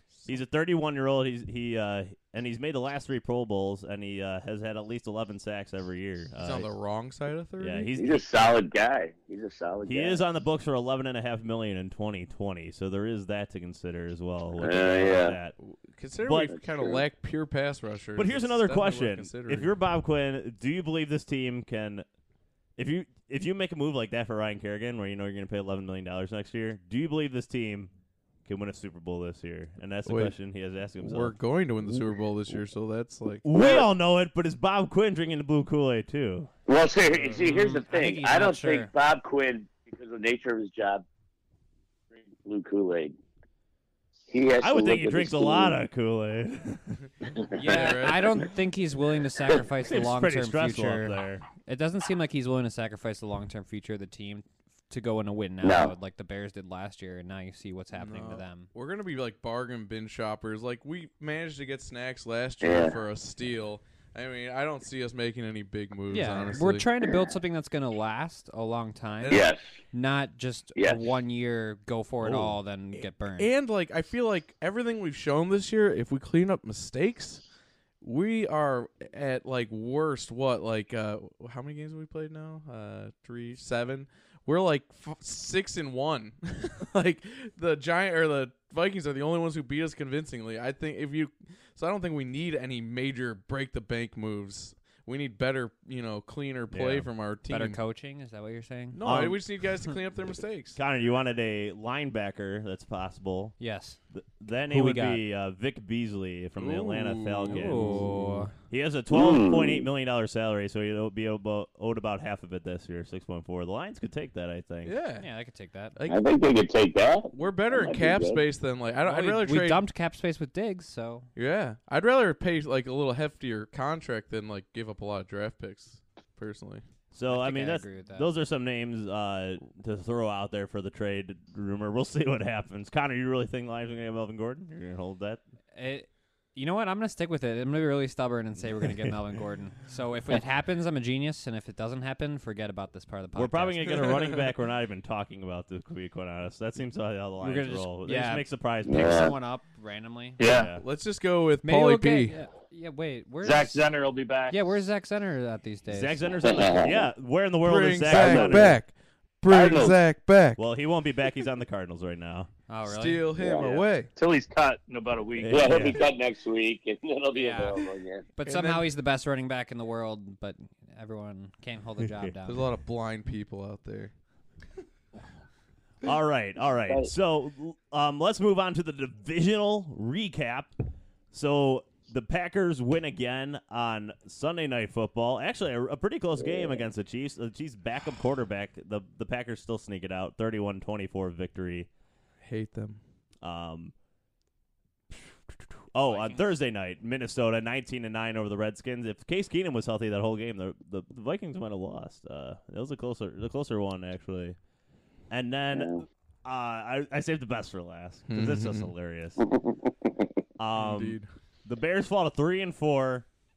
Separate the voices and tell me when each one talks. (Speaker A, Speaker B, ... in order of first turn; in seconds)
Speaker A: 0.3-6.7, 7.6-8.4, 9.8-15.6, 16.2-16.5, 18.2-22.1, 22.8-27.9, 28.4-31.4, 33.4-36.5, 44.6-47.0, 49.9-51.5, 96.7-97.1, 99.0-99.4, 100.8-103.5, 104.1-108.1, 108.7-115.0, 127.1-135.4, 138.8-139.1, 143.3-149.4, 150.4-150.8, 155.9-158.8, 160.6-162.5, 165.3-166.0, 172.0-172.3, 176.0-180.7, 181.3-191.9, 193.4-193.9, 195.5-204.6, 205.3-209.4, 210.6-213.3
Speaker B: 6.4-7.9, 15.6-19.7, 30.1-30.4, 31.0-33.5, 47.6-48.3, 57.9-66.9, 69.2-69.5, 72.2-77.4, 78.0-97.8, 98.9-100.8, 106.6-108.5, 114.8-115.3, 116.0-116.2, 117.3-119.8, 121.4-126.8, 150.5-152.4, 157.6-160.6, 162.8-164.1, 168.5-168.9, 172.5-174.1, 192.4-193.0, 208.3-208.9, 210.8-211.3
Speaker C: 8.0-10.2, 14.6-15.4, 16.5-17.0, 33.5-33.9, 36.7-41.0, 42.1-43.2, 44.3-45.8, 55.6-55.9, 62.6-63.0, 69.3-69.6, 70.8-71.0, 109.1-109.9, 116.1-118.4, 148.9-149.4, 156.5-157.1, 158.1-158.6, 159.5-160.0, 163.4-163.9, 165.5-168.2, 176.9-177.1, 186.4-186.9, 205.7-206.1, 209.5-210.1
Speaker D: 37.3-38.9, 47.5-58.7, 66.1-73.5, 97.5-99.0, 103.6-104.0, 104.7-105.2, 107.5-108.5, 115.2-116.0, 119.0-121.3, 127.3-128.3, 135.7-143.9, 147.4-150.4, 151.6-153.9, 154.5-156.7, 162.7-163.4, 167.3-167.8, 168.3-172.7, 196.1-196.6
Speaker E: 150.4-150.7, 153.4-154.6, 164.2-165.9